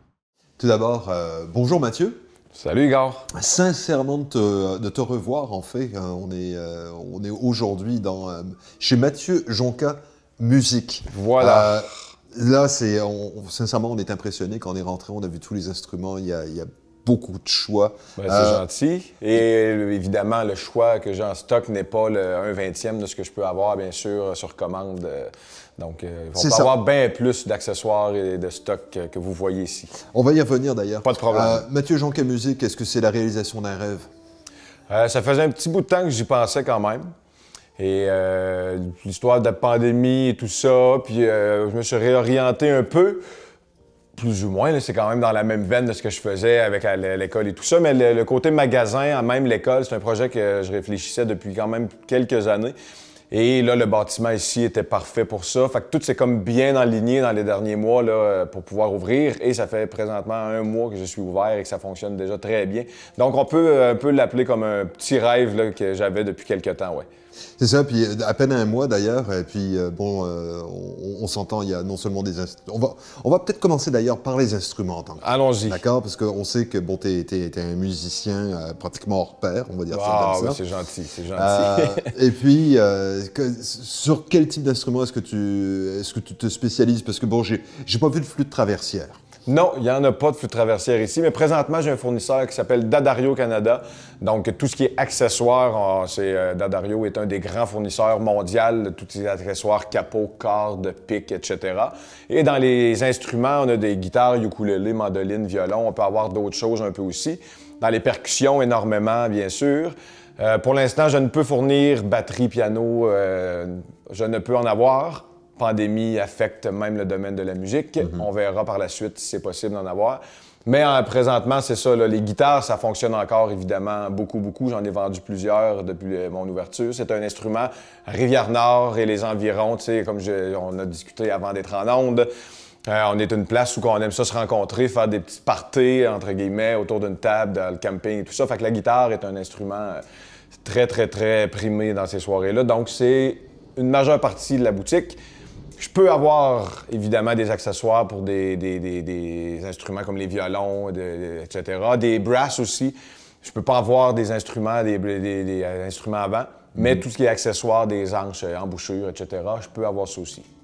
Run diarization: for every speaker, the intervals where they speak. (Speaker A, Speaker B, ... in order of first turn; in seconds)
Speaker A: 0.6-2.2, 3.3-18.6, 26.4-26.7, 30.1-34.1, 67.6-80.6, 81.4-89.2
Speaker B: 2.5-3.3, 11.1-11.8, 18.2-30.0, 31.0-31.6, 34.9-37.1, 37.8-43.2, 44.2-52.8, 53.3-67.1, 75.2-75.8, 79.9-82.1, 89.5-132.3, 132.9-140.0, 140.6-145.2, 145.8-160.4